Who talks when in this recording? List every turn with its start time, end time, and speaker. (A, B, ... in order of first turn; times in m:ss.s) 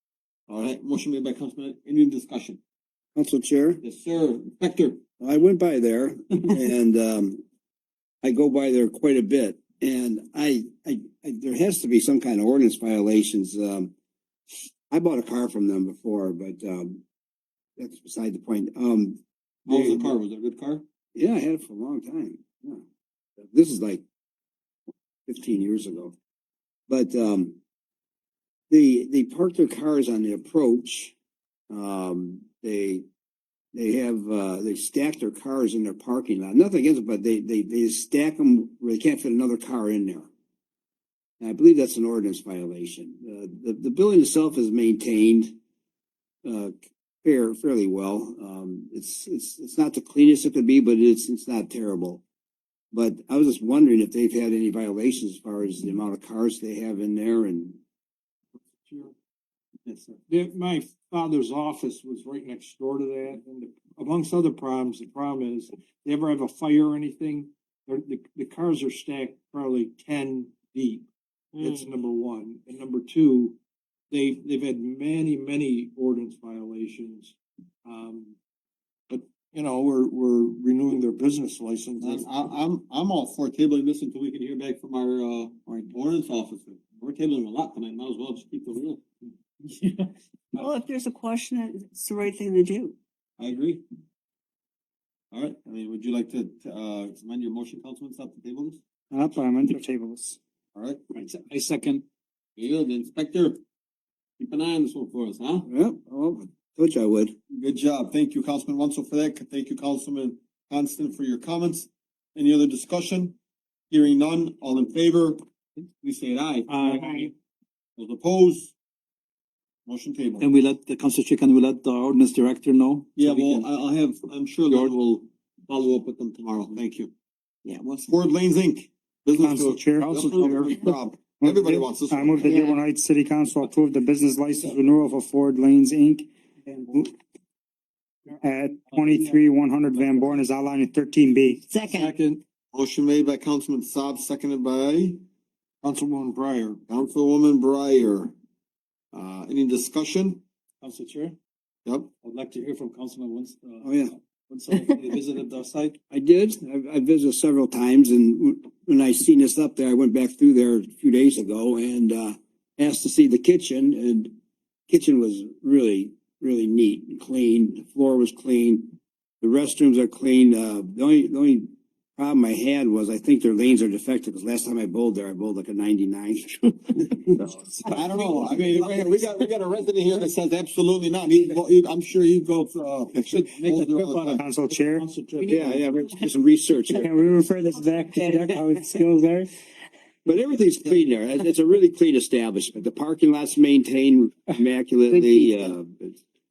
0:00.5-0:02.6 A
0:03.2-0:03.8 B
0:03.8-0:05.0 A
0:05.2-0:07.4 B
0:08.2-0:13.9 B
0:14.9-0:17.0 B
0:17.8-0:20.2 B
0:19.7-0:20.8 A
0:21.2-0:22.8 B
0:23.4-0:24.0 B
0:25.3-0:26.2 B
0:26.9-0:27.6 B
0:28.7-0:31.2 B
0:31.7-0:33.0 B
0:33.7-0:40.3 B
0:41.4-0:45.6 B
0:46.4-0:52.2 B
0:52.9-0:57.8 B
0:58.9-0:59.1 C
0:59.9-1:00.2 A
1:00.3-1:11.0 C
1:11.6-1:13.6 C
1:11.6-1:11.9 D
1:14.1-1:17.3 C
1:17.9-1:18.3 C
1:19.1-1:22.2 C
1:22.0-1:29.0 A
1:30.6-1:33.0 D
1:33.4-1:33.8 A
1:35.3-1:38.8 A
1:39.1-1:40.4 E
1:40.7-1:41.0 A
1:41.1-1:42.0 F
1:42.6-1:43.6 A
1:44.4-1:45.7 A
1:45.7-1:47.4 B
1:47.6-1:53.4 A
1:53.9-1:55.4 A
1:56.0-1:56.7 A
1:56.7-1:57.3 F
1:58.0-1:58.7 A
1:59.9-2:00.5 A
2:00.4-2:03.6 F
2:03.2-2:07.1 A
2:08.0-2:12.5 A
2:09.4-2:10.2 E
2:10.2-2:10.7 D
2:11.4-2:16.3 E
2:12.4-2:12.8 D
2:16.8-2:17.1 E
2:18.4-2:21.6 E
2:21.7-2:22.1 D
2:22.7-2:25.2 A
2:25.8-2:26.8 C
2:26.9-2:28.3 A
2:29.1-2:30.4 A
2:30.8-2:31.4 F
2:32.2-2:36.0 F
2:33.8-2:34.1 B
2:36.1-2:44.3 B
2:44.9-2:56.7 B
2:57.8-3:04.4 A
2:58.1-2:58.4 F
3:03.2-3:05.9 F
3:04.4-3:05.1 E
3:05.4-3:07.1 B
3:07.0-3:09.5 E
3:08.2-3:08.5 D
3:10.3-3:16.2 B
3:15.1-3:15.8 D